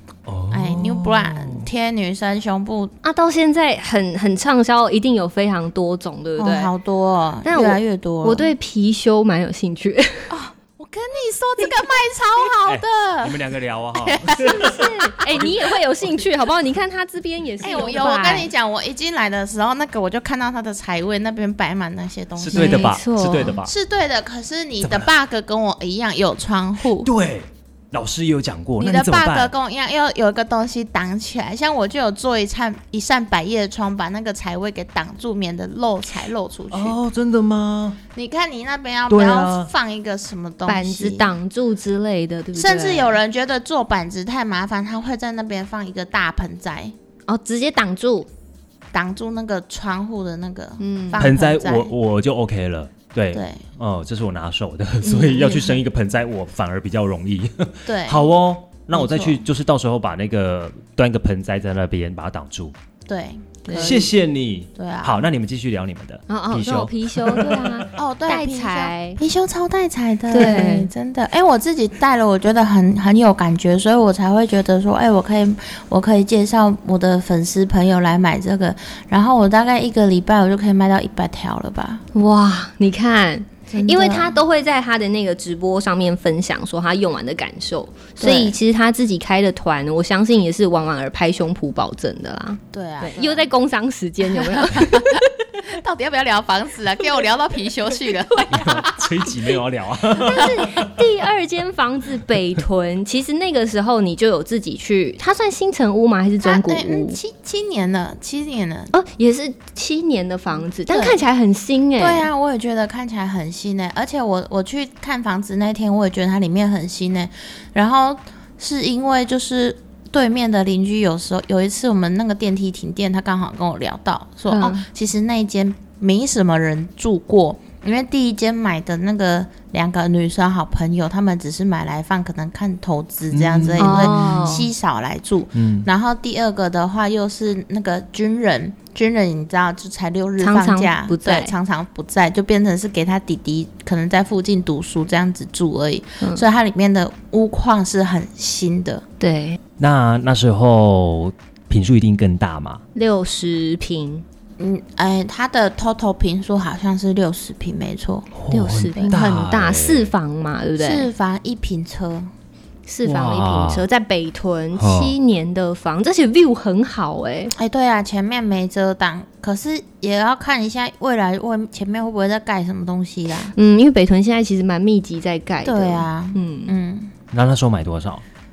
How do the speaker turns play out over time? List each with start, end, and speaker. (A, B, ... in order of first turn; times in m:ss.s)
0:00.3-0:01.7 A
0:00.5-0:02.9 B
0:03.0-0:06.7 C
0:06.4-0:08.5 B
0:07.4-0:10.3 C
0:10.3-0:13.4 B
0:12.7-0:16.2 A
0:14.0-0:15.4 B
0:14.4-0:18.5 C
0:17.6-0:23.0 B
0:22.4-0:23.7 A
0:22.5-0:23.6 C
0:23.6-0:27.1 B
0:24.8-0:25.1 A
0:26.8-0:29.5 A
0:28.8-0:37.0 B
0:36.7-0:38.0 A
0:38.2-0:41.3 B
0:39.1-0:39.7 A
0:40.7-0:43.2 C
0:42.6-0:46.9 B
0:47.3-0:48.3 C
0:48.9-0:51.9 B
0:50.8-0:51.2 C
0:51.2-1:02.8 A
0:53.3-0:53.6 B
0:55.0-0:55.7 C
0:57.9-0:58.3 B
0:58.9-0:59.4 B
1:03.1-1:04.1 B
1:03.7-1:04.0 C
1:03.8-1:07.9 A
1:04.8-1:05.2 B
1:06.3-1:09.2 C
1:08.0-1:22.0 B
1:10.3-1:10.9 C
1:22.1-1:35.2 C
1:23.7-1:24.4 B
1:28.2-1:28.6 B
1:32.7-1:33.5 B
1:34.3-1:39.3 B
1:38.5-1:41.1 A
1:40.2-1:47.2 C
1:46.4-1:48.9 B
1:48.9-1:52.3 C
1:50.9-1:51.2 B
1:52.0-2:29.0 B
2:04.5-2:04.8 C
2:13.3-2:14.5 A
2:13.8-2:14.7 C
2:15.5-2:15.9 A
2:20.4-2:21.5 C
2:29.2-2:29.6 C
2:29.8-2:32.8 A
2:33.0-2:34.2 C
2:34.6-2:38.3 B
2:38.3-2:40.1 A
2:38.5-2:41.1 C
2:40.8-2:42.3 B
2:42.9-2:47.5 C
2:43.0-2:43.9 A
2:44.7-2:45.2 A
2:47.6-2:53.5 B
2:53.5-2:56.8 C
2:55.6-2:57.1 B
2:57.3-2:58.2 A